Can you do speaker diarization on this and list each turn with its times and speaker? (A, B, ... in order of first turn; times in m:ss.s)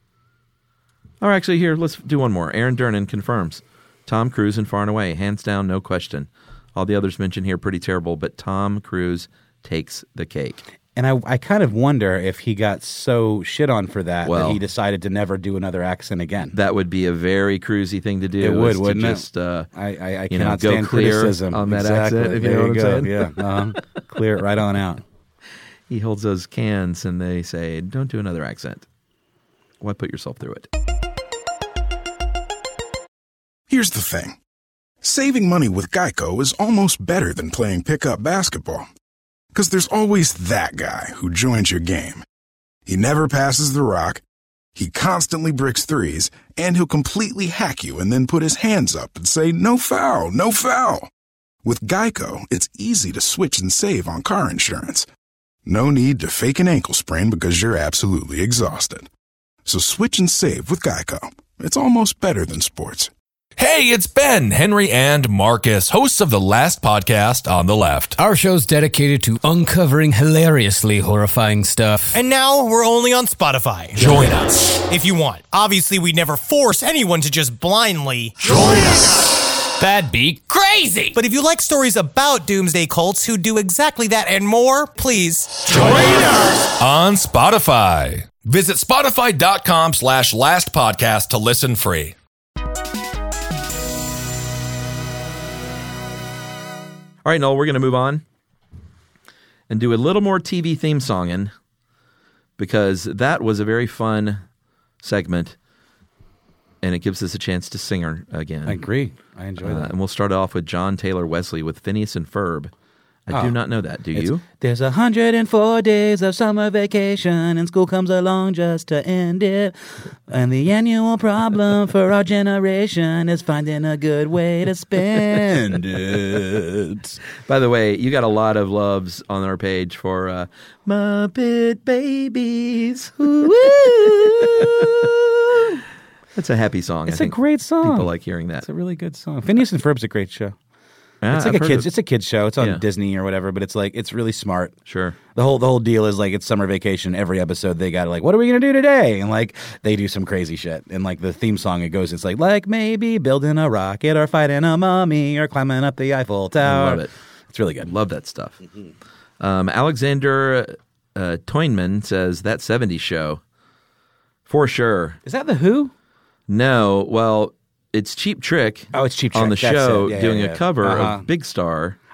0:01.2-0:10.6 A
0:10.9-0:16.5 B
0:14.2-0:14.6 A
0:16.5-0:19.7 A
0:18.4-0:25.0 B
0:20.3-0:23.9 A
0:25.9-0:28.8 A
0:29.8-0:30.7 A
0:33.7-0:34.4 C
0:35.0-0:38.8 C
0:39.5-0:42.2 C
0:42.8-0:44.2 C
0:44.7-0:51.1 C
0:51.6-0:55.1 C
0:55.6-0:59.1 C
0:59.6-1:03.1 C
1:03.6-1:08.1 D
1:08.2-1:12.2 E
1:12.1-1:14.0 F
1:14.0-1:14.7 D
1:14.9-1:18.5 F
1:19.8-1:21.2 E
1:21.1-1:25.7 F
1:25.7-1:32.1 D
1:37.2-1:38.2 A
1:39.7-1:41.5 A
1:42.6-1:44.4 A
1:45.0-1:45.6 A
1:46.8-1:48.8 A
1:48.6-1:49.9 B
1:49.6-1:52.7 A
1:53.3-1:54.4 A
1:53.3-1:53.6 B
1:54.1-2:07.2 B
2:07.4-2:15.1 A
2:13.2-2:15.8 B
2:16.3-2:18.7 A
2:17.1-2:18.1 B
2:18.6-2:20.6 B
2:21.2-2:21.9 A
2:21.3-2:24.7 B
2:24.9-2:25.2 A
2:25.3-2:37.9 B
2:36.6-2:37.1 A
2:37.8-2:38.6 A
2:39.4-2:43.4 A
2:44.5-2:45.2 A
2:45.2-2:45.9 B
2:46.5-2:52.0 A
2:48.9-2:51.2 B